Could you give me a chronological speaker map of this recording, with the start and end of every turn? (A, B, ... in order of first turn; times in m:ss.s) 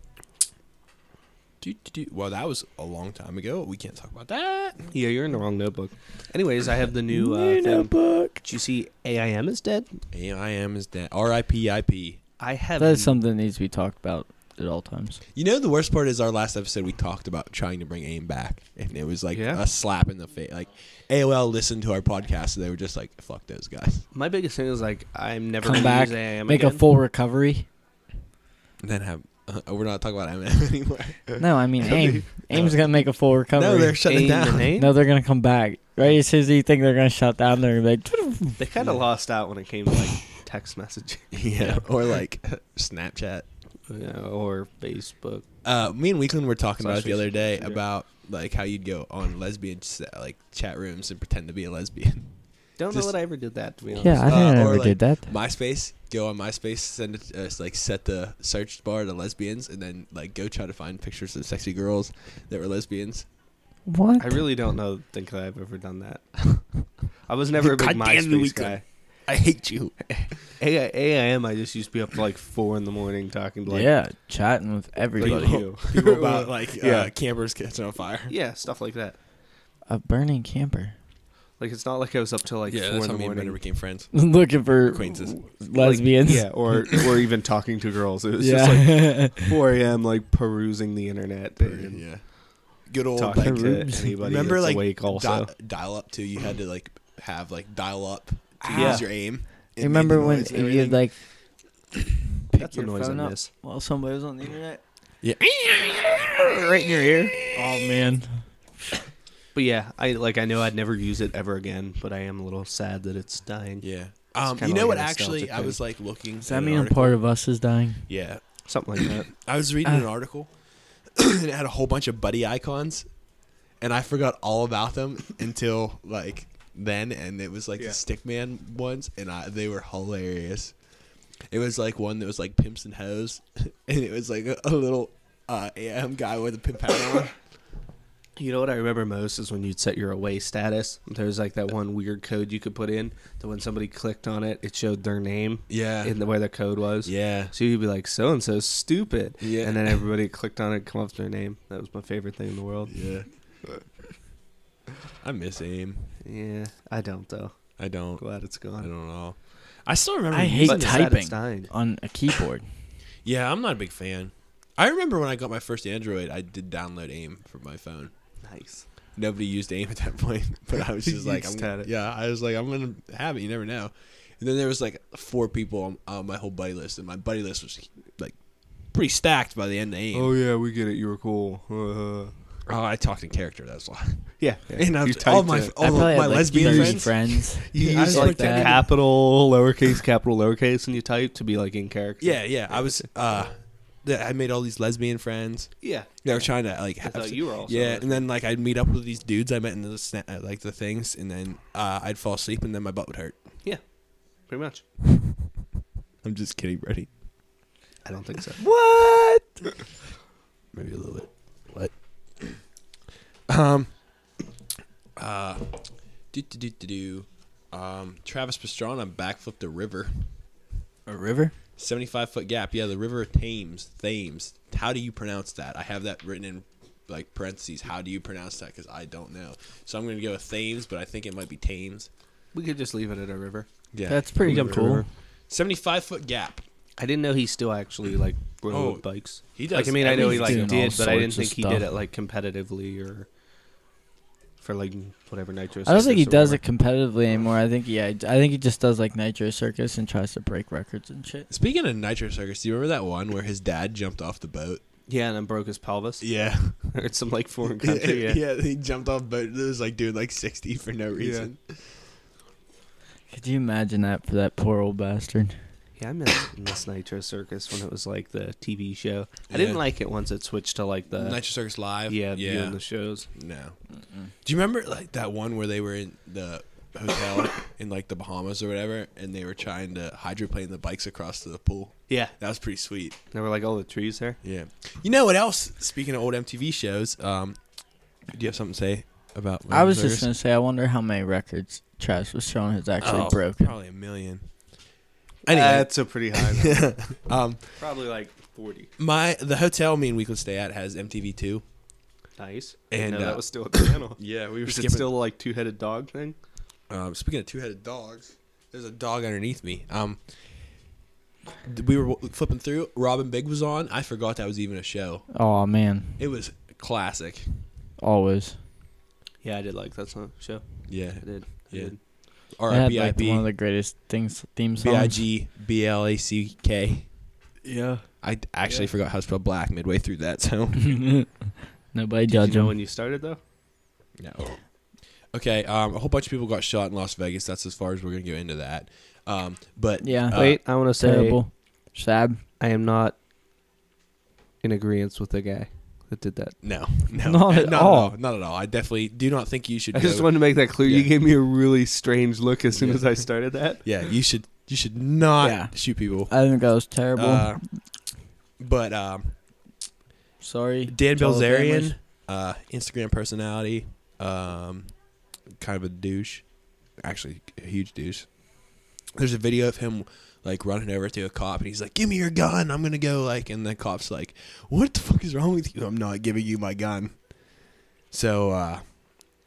0:01.6-0:04.9 A
0:04.9-0:07.9 B
0:07.1-0:08.4 C
0:08.4-0:09.9 B
0:10.1-0:12.2 A
0:12.4-0:13.2 B
0:12.8-0:15.2 C
0:15.3-0:24.1 A
0:19.3-0:19.6 B
0:24.1-0:26.8 B
0:25.6-0:27.7 C
0:28.8-0:31.4 A
0:31.4-0:34.2 C
0:32.5-0:32.8 A
0:33.5-0:34.8 A
0:34.0-0:35.0 B
0:34.8-0:38.6 C
0:38.6-0:41.4 B
0:41.3-0:43.5 A
0:43.9-0:45.4 B
0:45.6-0:53.1 A
0:46.8-0:47.8 B
0:52.8-0:54.7 B
0:53.9-1:03.3 A
0:54.0-0:55.3 C
1:03.9-1:04.4 C
1:04.2-1:06.4 B
1:07.3-1:08.8 B
1:07.6-1:10.0 A
1:10.1-1:13.9 B
1:13.7-1:15.6 C
1:15.1-1:17.1 B
1:15.2-1:18.3 A
1:18.3-1:19.2 B
1:19.9-1:20.9 C
1:21.6-1:23.6 B
1:22.6-1:24.2 A
1:24.1-1:26.7 C
1:24.8-1:25.4 A
1:25.7-1:32.1 B
1:28.4-1:29.6 C
1:31.6-1:41.1 A
1:33.1-1:35.5 B
1:33.4-1:34.2 C
1:38.6-1:41.2 C
1:38.7-1:39.1 B
1:42.4-1:44.8 C
1:42.5-1:43.5 B
1:45.2-1:47.8 A
1:47.3-1:48.4 C
1:49.5-1:53.8 B
1:53.8-1:57.2 A
1:54.5-1:55.8 B
1:56.4-1:58.0 C
1:58.1-1:58.4 A
1:58.6-1:59.3 B
1:59.0-2:00.5 A
2:01.2-2:03.1 A
2:03.8-2:10.7 A
2:11.5-2:17.3 A
2:18.4-2:32.9 B
2:25.7-2:26.1 A
2:27.0-2:27.5 A
2:29.4-2:30.0 A
2:32.9-2:33.3 A
2:35.2-2:36.2 A
2:36.2-2:37.6 B
2:37.8-2:38.2 A
2:38.2-2:38.9 B
2:38.8-2:41.1 A
2:40.3-2:42.6 C
2:40.6-2:41.7 B
2:43.2-2:48.1 A
2:48.4-2:48.8 B
2:49.2-2:58.4 A
2:51.0-2:51.9 B
2:58.9-3:00.3 A
3:00.1-3:02.3 B
3:02.7-3:08.9 A
3:04.4-3:13.1 B
3:05.8-3:08.8 C
3:12.2-3:23.4 A
3:15.8-3:16.4 B
3:17.0-3:18.2 B
3:24.5-3:24.8 B
3:26.2-3:27.1 A
3:28.0-3:28.6 B
3:28.6-3:29.6 C
3:30.7-3:32.6 A
3:33.5-3:33.9 A
3:35.2-3:40.3 A
3:41.0-3:41.5 C
3:41.8-3:52.1 A
3:52.5-3:53.7 B
3:53.9-3:56.6 A
3:54.1-3:55.0 C
3:54.4-3:55.0 B
3:57.0-4:03.3 B
3:58.7-4:00.8 A
4:00.0-4:01.8 C
4:04.6-4:06.6 B
4:05.8-4:11.5 C
4:11.5-4:14.8 A
4:15.1-4:18.4 B
4:16.2-4:16.9 A
4:17.8-4:22.0 A
4:21.2-4:21.5 B
4:23.3-4:25.6 C
4:26.0-4:31.4 B
4:29.5-4:29.8 A
4:31.1-4:32.8 A
4:32.1-4:33.3 B
4:33.3-4:33.8 A
4:34.4-4:43.2 A
4:42.1-4:42.3 B
4:43.3-4:44.4 B
4:44.4-4:47.6 A
4:48.3-4:50.3 A
4:49.7-4:53.7 C
4:53.0-4:54.4 A
4:55.4-4:57.8 A
4:55.5-4:56.9 B
4:57.8-4:58.9 B
4:59.0-5:01.6 A
5:02.4-5:06.4 B
5:02.9-5:05.2 A
5:06.9-5:10.2 A
5:11.6-5:15.3 A
5:15.3-5:16.2 C
5:16.2-5:17.7 A
5:18.0-5:18.6 C
5:19.4-5:22.0 B
5:20.9-5:21.9 A
5:22.5-5:23.5 A
5:22.7-5:25.2 C
5:24.8-5:27.1 A
5:27.6-5:28.0 C
5:28.2-5:31.0 A
5:30.8-5:31.3 C
5:31.9-5:32.7 C
5:32.3-5:33.4 B
5:34.2-5:34.6 A
5:35.3-5:40.6 A
5:40.0-5:42.4 C
5:40.3-5:41.4 B
5:42.6-5:43.2 B
5:44.6-5:46.6 B
5:46.6-5:51.1 A
5:47.1-5:48.2 C
5:49.9-5:53.8 B
5:52.7-5:56.3 A
5:55.4-5:57.6 C
5:57.1-5:57.6 A
5:58.6-5:59.3 A
6:00.4-6:01.9 C
6:00.9-6:04.9 A
6:05.6-6:06.4 A
6:07.0-6:08.3 A
6:09.1-6:17.3 A
6:18.1-6:18.9 A